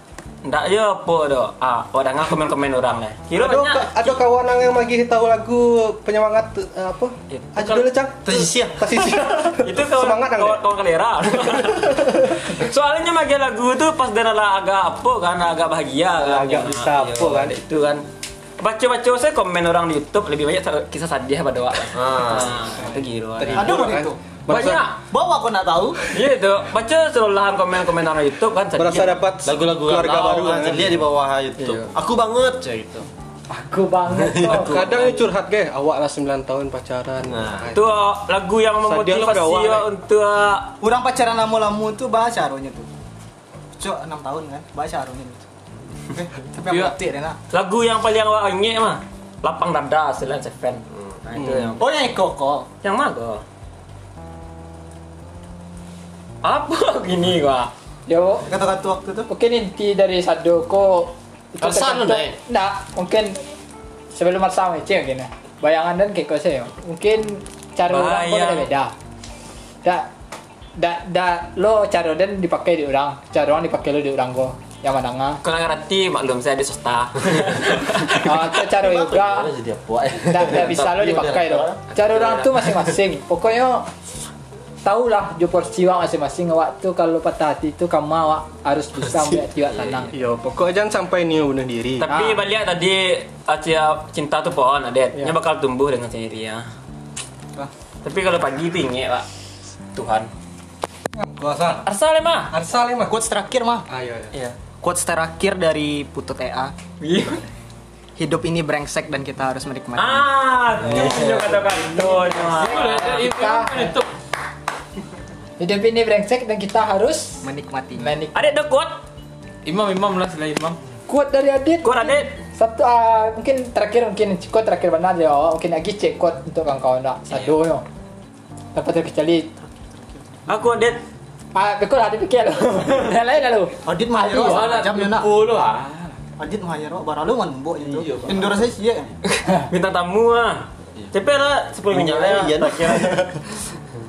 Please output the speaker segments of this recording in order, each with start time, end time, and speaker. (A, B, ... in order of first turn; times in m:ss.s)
0:00.4-0:04.2 A
0:03.3-0:10.6 B
0:07.3-0:07.9 A
0:08.2-0:09.3 C
0:09.6-0:18.0 A
0:11.5-0:12.0 B
0:16.2-0:17.5 B
0:18.6-0:23.9 A
0:21.9-0:22.6 C
0:23.4-0:24.8 B
0:23.6-0:24.2 D
0:24.5-0:25.0 A
0:25.1-0:26.1 D
0:26.0-0:29.2 A
0:28.8-0:31.0 B
0:29.4-0:33.1 C
0:31.6-0:31.9 A
0:33.5-0:34.7 E
0:34.1-0:35.2 C
0:34.4-0:37.8 B
0:37.2-0:37.7 C
0:37.7-0:40.8 A
0:38.8-0:39.9 B
0:40.8-0:42.9 D
0:43.8-0:45.4 D
0:46.1-0:47.4 D
0:46.7-0:47.0 F
0:47.5-0:51.9 A
0:51.4-0:51.8 B
0:51.8-0:52.7 D
0:52.8-0:53.4 A
0:56.4-0:57.7 A
0:58.1-0:58.5 E
0:58.5-0:59.3 D
0:59.3-1:03.4 E
1:01.6-1:02.3 C
1:04.1-1:08.9 E
1:07.9-1:08.7 A
1:09.8-1:10.1 E
1:10.8-1:15.4 E
1:15.4-1:18.3 A
1:18.2-1:19.5 E
1:18.8-1:21.8 C
1:20.2-1:23.9 E
1:24.8-1:30.1 E
1:30.1-1:32.1 B
1:32.0-1:36.6 A
1:32.0-1:32.4 E
1:38.0-1:39.2 A
1:39.9-1:40.3 A
1:41.2-1:41.8 B
1:41.8-1:42.5 A
1:42.5-1:43.1 B
1:43.0-1:43.9 D
1:43.9-1:44.3 B
1:44.8-1:46.7 D
1:47.0-1:47.4 A
1:48.2-1:50.2 D
1:50.0-1:53.0 A
1:50.9-1:51.4 B
1:52.2-1:54.0 E
1:52.6-1:54.0 F
1:55.6-1:57.4 E
1:57.4-1:58.0 D
1:58.0-1:58.4 E
1:58.3-1:59.0 A
1:59.6-2:00.8 F
2:01.1-2:07.8 E
2:01.8-2:02.3 A
2:08.7-2:09.5 E
2:10.5-2:11.0 A
2:11.5-2:14.7 E
2:13.8-2:15.4 D
2:14.3-2:16.1 F
2:16.4-2:19.1 D
2:17.8-2:18.6 F
2:19.5-2:23.3 A
2:21.9-2:23.4 C